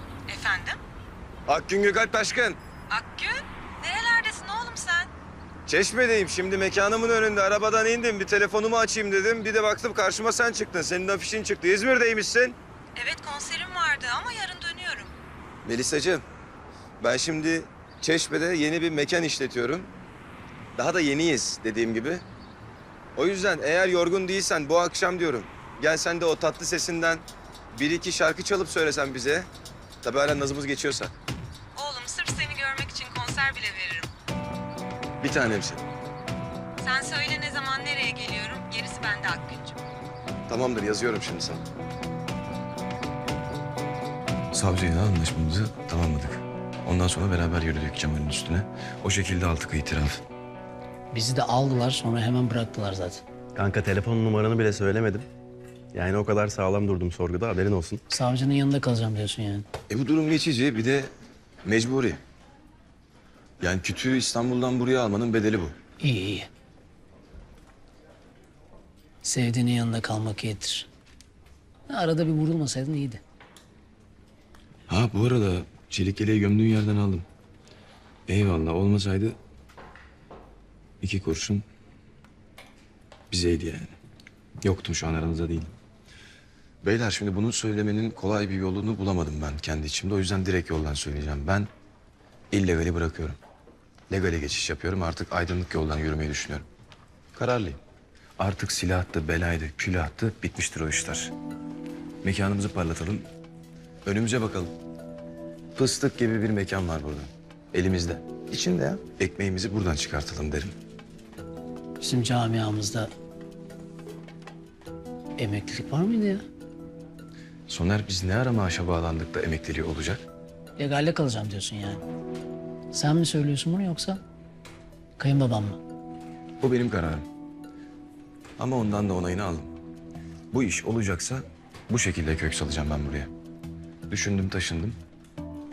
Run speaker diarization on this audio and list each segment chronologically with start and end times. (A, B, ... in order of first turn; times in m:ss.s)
0:00.3-0:00.8 A
0:01.5-0:02.6 B
0:02.9-0:05.1 A
0:05.7-0:12.6 B
0:13.0-0:15.1 A
0:15.6-0:16.2 B
0:17.0-0:19.9 B
0:20.8-0:22.2 B
0:23.2-0:29.5 B
0:30.0-0:31.1 B
0:31.7-0:34.1 A
0:35.2-0:35.8 B
0:36.8-0:39.8 A
0:40.5-0:41.6 B
0:44.5-0:50.2 B
0:51.1-0:53.2 C
0:53.5-0:55.3 D
0:55.9-0:58.0 D
0:58.1-0:59.6 C
0:59.9-1:01.1 B
1:01.6-1:02.2 B
1:03.6-1:05.7 B
1:06.0-1:06.5 C
1:09.2-1:10.9 C
1:11.9-1:13.2 C
1:14.9-1:17.2 B
1:18.3-1:19.4 B
1:21.0-1:21.6 B
1:23.3-1:23.9 B
1:24.6-1:25.7 B
1:26.8-1:31.7 B
1:32.5-1:33.4 B
1:34.1-1:36.6 B
1:37.3-1:37.8 B
1:38.4-1:41.3 B
1:42.2-1:43.3 B
1:44.0-1:44.7 B
1:45.8-1:50.7 B
1:52.0-1:53.1 C
1:55.4-1:56.4 C
1:57.7-2:00.2 B
2:00.8-2:02.0 C
2:02.9-2:04.2 C
2:05.2-2:05.8 C
2:06.6-2:07.3 B
2:08.6-2:09.7 B
2:10.5-2:13.3 B
2:14.1-2:15.0 B